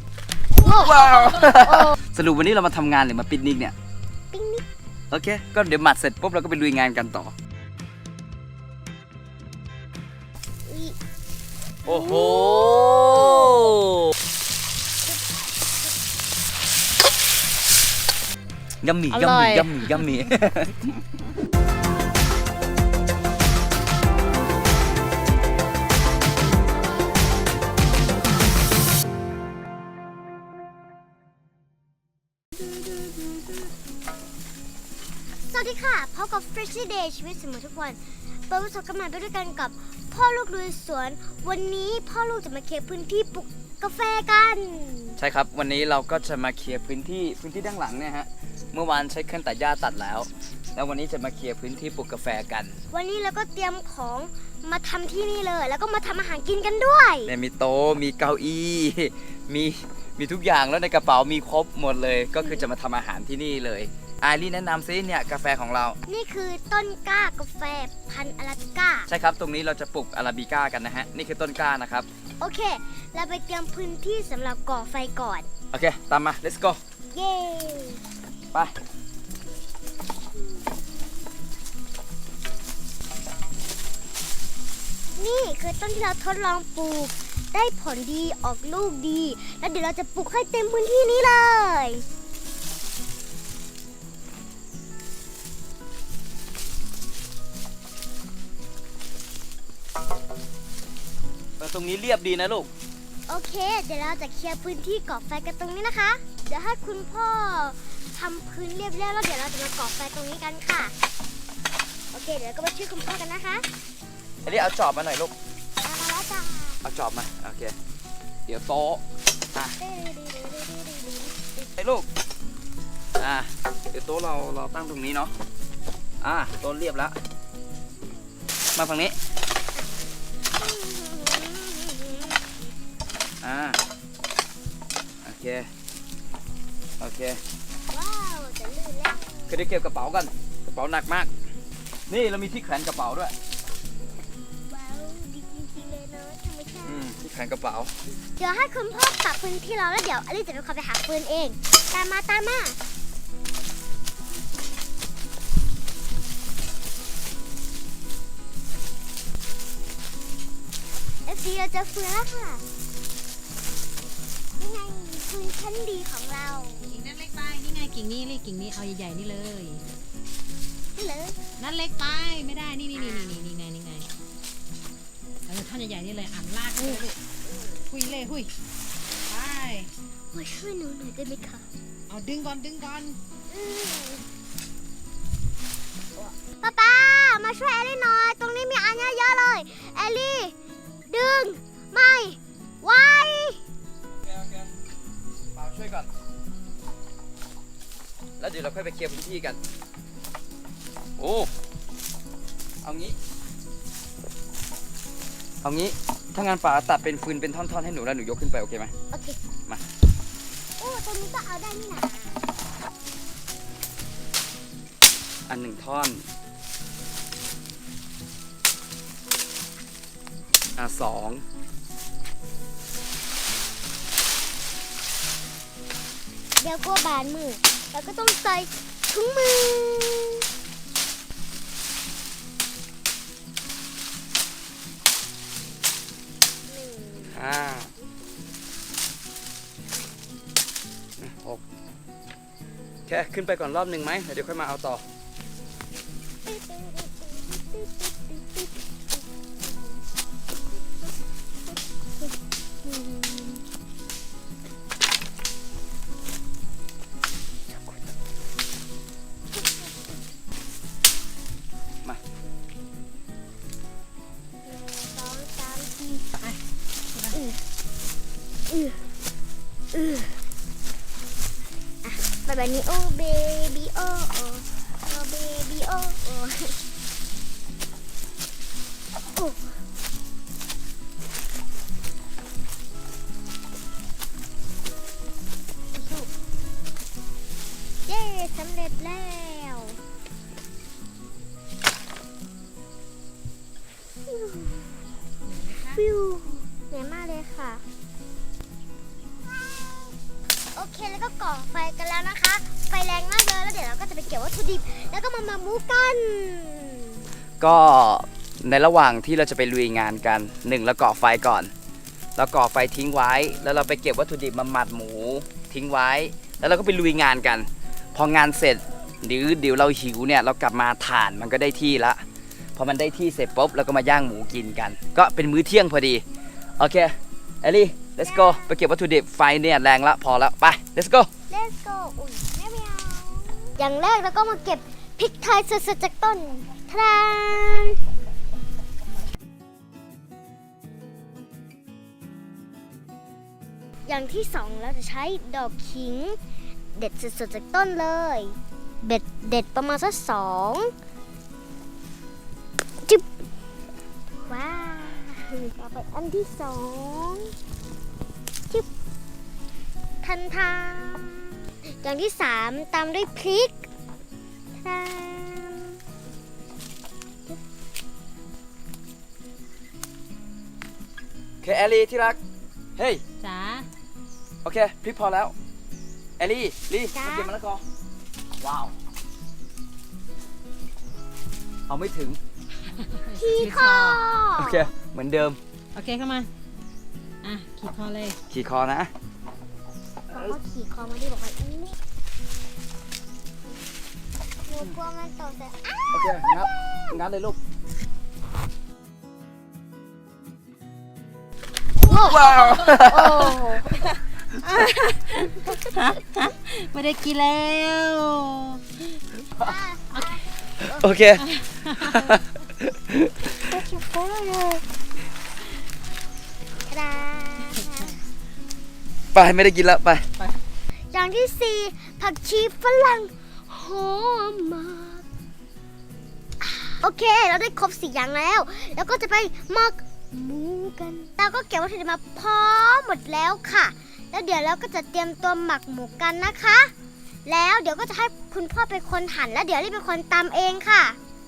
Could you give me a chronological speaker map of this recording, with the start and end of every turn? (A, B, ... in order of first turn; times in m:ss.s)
0:00.5-0:02.0 A
0:00.6-0:03.8 B
0:04.3-0:04.6 A
0:05.1-0:07.3 B
0:10.7-0:11.0 A
0:11.8-0:13.7 A
0:11.9-0:14.1 B
0:15.1-0:15.9 A
0:18.8-0:21.0 B
0:19.1-0:19.8 C
0:32.6-0:33.5 A
0:35.5-0:45.2 A
0:45.2-0:52.8 B
0:52.9-0:57.3 A
0:57.2-1:06.0 B
1:02.4-1:02.7 A
1:06.1-1:09.1 A
1:09.1-1:12.1 B
1:12.4-1:15.5 A
1:15.7-1:16.8 B
1:17.1-1:18.0 A
1:25.2-1:32.0 A
1:41.6-1:42.7 B
1:43.3-1:50.9 A
1:52.1-1:53.7 A
1:54.4-1:55.3 B
1:55.8-1:56.8 A
1:56.8-1:57.8 B
1:58.5-1:59.0 B
1:59.8-2:01.7 A
2:01.8-2:02.1 B
2:03.2-2:05.3 B
2:06.2-2:07.2 B
2:08.8-2:09.2 B
2:10.5-2:12.6 A
2:13.4-2:13.8 B
2:15.2-2:15.7 B
2:17.0-2:17.4 B
2:17.9-2:19.6 A
2:19.5-2:21.3 B
2:22.1-2:23.3 B
2:24.6-2:27.0 A
2:26.8-2:27.9 B
2:28.4-2:32.8 A
2:41.3-2:42.6 A
2:44.6-2:47.0 A
2:46.9-2:49.8 C
2:51.0-2:51.4 A
2:51.6-2:54.1 C
2:53.0-2:53.4 A
2:55.5-2:57.2 C
2:57.9-2:58.5 C
2:59.3-2:59.9 C
3:00.3-3:01.7 A
3:02.1-3:03.2 C
3:03.5-3:04.2 A
3:06.2-3:10.6 A
3:11.1-3:13.6 A
3:14.2-3:14.7 B
3:15.5-3:16.1 B
3:18.4-3:19.6 B
3:21.2-3:21.5 B
3:22.8-3:23.2 B
3:25.6-3:28.9 B
3:29.1-3:29.4 A
3:30.8-3:32.4 A
3:35.5-3:36.2 B
3:40.8-3:41.4 B
3:46.6-3:50.5 A
3:56.7-3:57.4 A
3:57.3-3:57.9 B
4:01.2-4:01.6 B
4:03.1-4:05.0 B
4:06.4-4:08.8 A
4:09.6-4:10.0 A
4:12.8-4:13.6 A
4:17.7-4:18.1 A
4:19.6-4:20.1 A
4:24.6-4:26.3 A
4:27.3-4:27.6 A
4:28.7-4:29.1 A
4:29.9-4:30.4 A
4:32.0-4:36.8 A
4:39.4-4:39.7 A
4:48.1-4:50.0 A
4:54.2-4:55.1 A
4:55.4-4:56.0 C
4:55.8-4:57.8 A
4:59.5-5:00.2 A
5:00.8-5:07.2 A
5:07.6-5:11.7 B
5:12.4-5:22.2 B
5:22.8-5:26.2 B
5:26.8-5:31.3 B
5:28.2-5:28.8 A
5:31.5-5:38.0 A
5:44.1-5:46.4 A
5:47.0-5:50.9 A
5:54.5-5:57.5 A
6:00.2-6:03.9 A
6:04.8-6:06.0 A
6:11.6-6:12.4 B
6:13.0-6:13.2 B
6:13.4-6:13.9 C
6:14.6-6:15.6 B
6:16.4-6:17.8 B
6:17.1-6:17.5 A
6:18.6-6:18.9 B
6:21.9-6:22.4 B
6:23.0-6:24.2 C
6:23.3-6:24.8 A
6:24.6-6:25.6 B
6:26.0-6:26.5 C
6:27.4-6:28.4 C
6:28.5-6:29.1 B
6:30.3-6:32.0 A
6:34.7-6:37.2 A
6:36.1-6:37.6 B
6:42.0-6:44.1 A
6:42.1-6:43.6 B
6:43.4-6:44.0 C
6:44.6-6:48.8 C
6:49.6-6:51.1 A
6:50.9-6:53.6 B
6:51.5-6:52.2 C
6:53.6-6:54.8 A
6:56.9-6:58.2 A
6:59.3-7:00.3 B
7:01.1-7:05.2 A
7:06.6-7:16.9 A
7:17.5-7:21.2 A